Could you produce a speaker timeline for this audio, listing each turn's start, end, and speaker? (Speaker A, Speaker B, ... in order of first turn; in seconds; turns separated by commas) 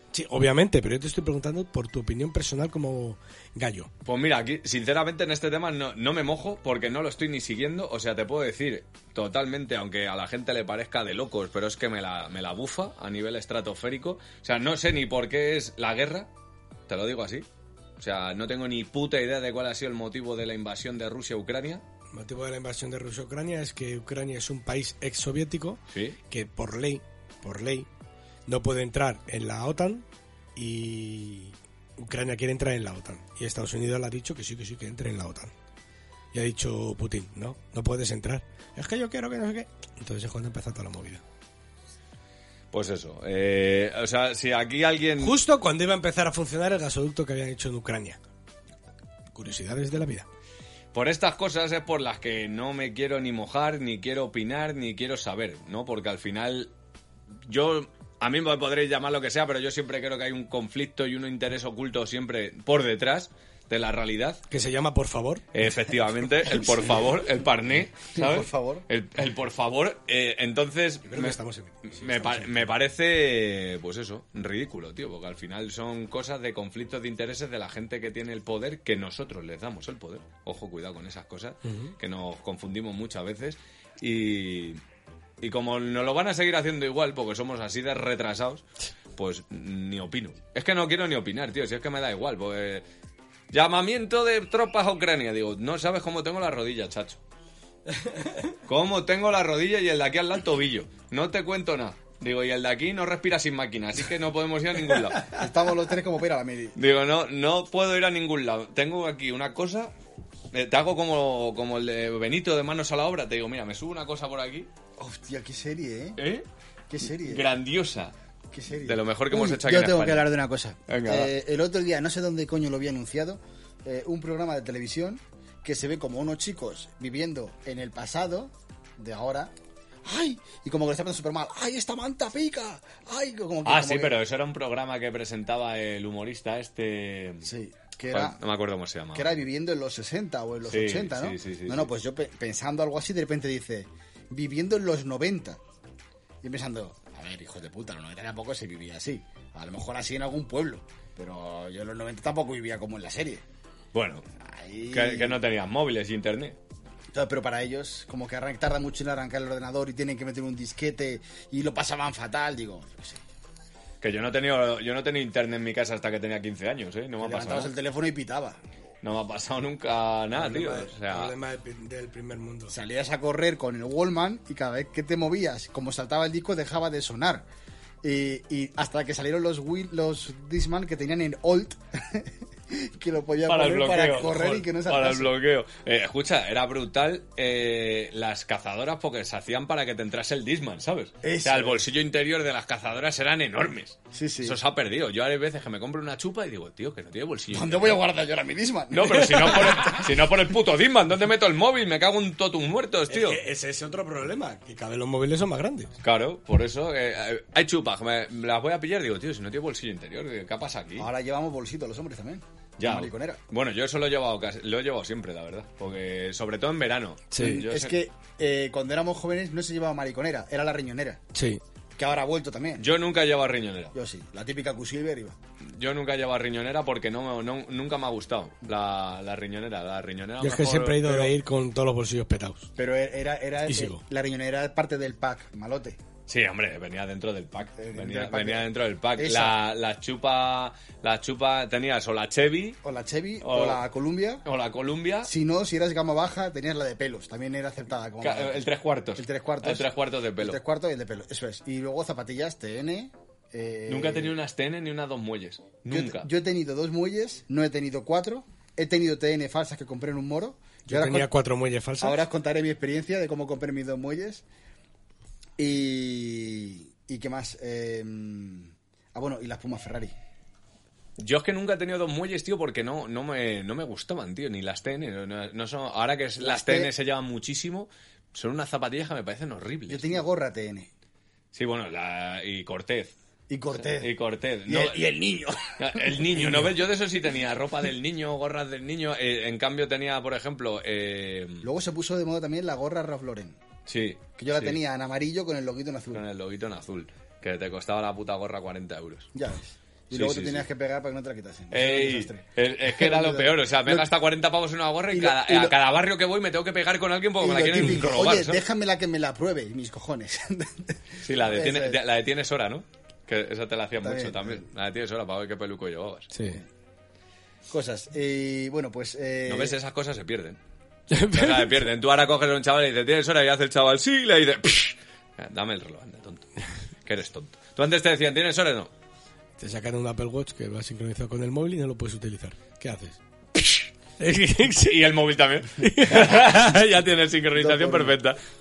Speaker A: 0.1-3.9, Speaker B: 4.0-16.3, Speaker B: 16.9-17.4, Speaker B: 18.0-21.8, Speaker A: 22.1-27.9, Speaker B: 25.9-26.2, Speaker A: 28.5-35.5, Speaker A: 36.3-41.2, Speaker B: 42.7-45.4, Speaker A: 45.2-48.2, Speaker A: 49.3-50.2, Speaker B: 50.9-56.7, Speaker B: 57.5-64.4, Speaker A: 64.5-65.4, Speaker B: 65.5-84.8, Speaker C: 68.1-68.8, Speaker A: 71.1-72.7, Speaker A: 81.7-81.9, Speaker B: 85.4-88.6, Speaker B: 89.2-92.8, Speaker B: 93.5-97.2, Speaker B: 98.7-105.4, Speaker C: 105.3-106.8, Speaker B: 106.8-109.9, Speaker B: 110.5-114.7, Speaker C: 115.0-116.2, Speaker B: 116.2-116.5, Speaker C: 116.9-117.5, Speaker B: 117.1-118.1, Speaker C: 118.5-129.5, Speaker B: 118.8-120.3, Speaker B: 120.9-121.3, Speaker C: 130.0-134.2, Speaker B: 133.6-137.5, Speaker C: 137.4-138.4, Speaker B: 138.1-139.3, Speaker C: 139.1-145.6, Speaker B: 140.7-141.9, Speaker C: 146.4-153.4, Speaker B: 153.9-154.2, Speaker C: 154.4-155.4, Speaker B: 154.9-156.6, Speaker C: 157.1-163.2, Speaker B: 164.0-167.7, Speaker C: 167.2-168.6, Speaker B: 169.0-171.3, Speaker A: 170.3-172.7, Speaker C: 172.7-177.4, Speaker C: 178.0-185.3, Speaker B: 183.4-198.0, Speaker C: 191.2-191.8, Speaker C: 194.1-194.6, Speaker C: 197.5-200.1, Speaker B: 198.9-203.4, Speaker A: 203.1-205.9, Speaker B: 206.0-211.1, Speaker C: 211.0-213.4, Speaker B: 212.8-217.9, Speaker A: 217.3-217.6, Speaker C: 217.3-221.2, Speaker A: 221.3-221.6, Speaker C: 221.9-222.8, Speaker B: 222.8-223.9, Speaker C: 223.9-225.4, Speaker B: 225.6-231.3, Speaker A: 230.4-232.7, Speaker C: 232.8-236.0, Speaker A: 233.7-234.0, Speaker B: 236.3-242.8, Speaker C: 237.8-239.6, Speaker C: 242.8-244.4, Speaker B: 243.4-243.8, Speaker B: 244.4-245.3, Speaker C: 245.2-254.3, Speaker B: 248.2-250.6, Speaker B: 253.9-256.3, Speaker C: 255.9-261.3, Speaker A: 260.9-262.2, Speaker C: 262.0-264.4, Speaker C: 265.6-270.1, Speaker B: 271.2-280.2, Speaker C: 276.4-276.9, Speaker C: 279.9-280.9, Speaker B: 281.5-283.1, Speaker C: 283.5-284.1, Speaker B: 283.8-285.1, Speaker C: 284.6-286.8, Speaker B: 285.8-291.7, Speaker C: 291.6-293.6, Speaker B: 293.9-294.8, Speaker C: 294.4-296.2, Speaker B: 296.1-299.3, Speaker C: 299.3-304.1, Speaker B: 300.1-300.6, Speaker B: 301.7-308.6, Speaker C: 305.1-305.7, Speaker C: 307.4-312.0, Speaker B: 311.2-316.3, Speaker C: 314.0-314.6, Speaker A: 316.3-316.6, Speaker C: 317.7-319.8, Speaker B: 319.4-320.6, Speaker A: 321.1-321.7, Speaker B: 321.1-326.5, Speaker B: 327.0-328.9, Speaker A: 329.6-333.2, Speaker A: 334.2-335.0, Speaker B: 334.8-338.4, Speaker A: 335.8-336.6, Speaker C: 337.6-338.2